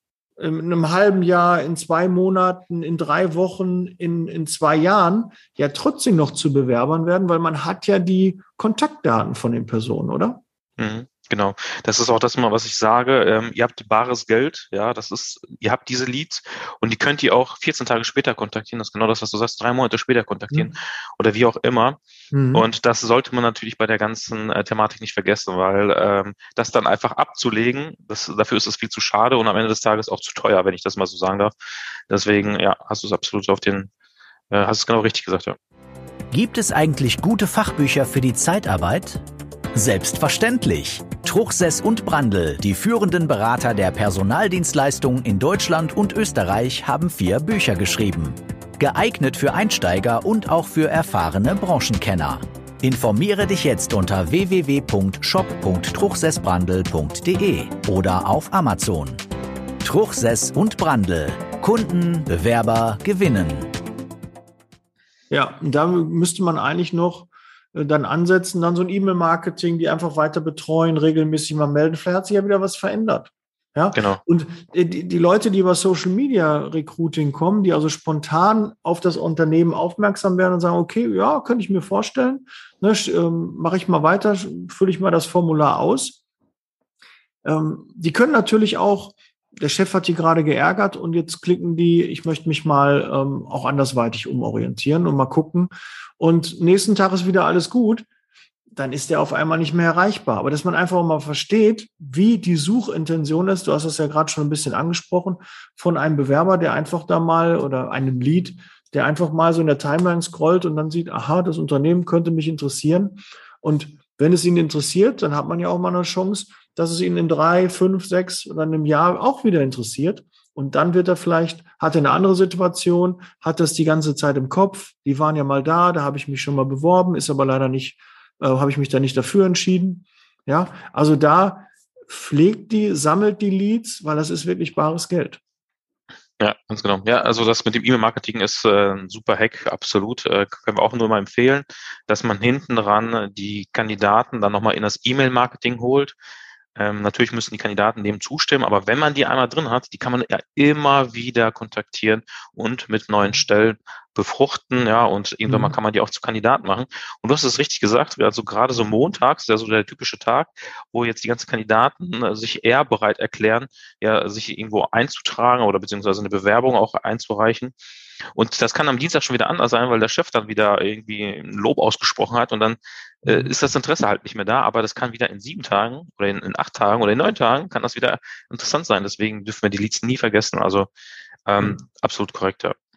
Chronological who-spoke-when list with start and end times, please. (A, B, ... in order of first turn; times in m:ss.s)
0:00.4-0:10.4 A
0:10.8-0:22.0 B
0:22.3-0:22.7 A
0:22.5-0:31.5 B
0:32.1-0:33.9 B
0:34.5-0:35.6 B
0:36.3-0:39.2 C
0:39.8-0:59.2 C
0:59.8-1:03.7 C
1:05.3-1:26.2 A
1:14.0-1:14.2 B
1:27.4-1:38.1 A
1:38.7-2:15.4 A
2:16.4-2:26.2 B
2:26.8-2:47.8 B
2:35.5-2:35.8 A
2:48.3-3:00.9 B
2:53.3-2:53.5 A
3:01.5-3:02.8 B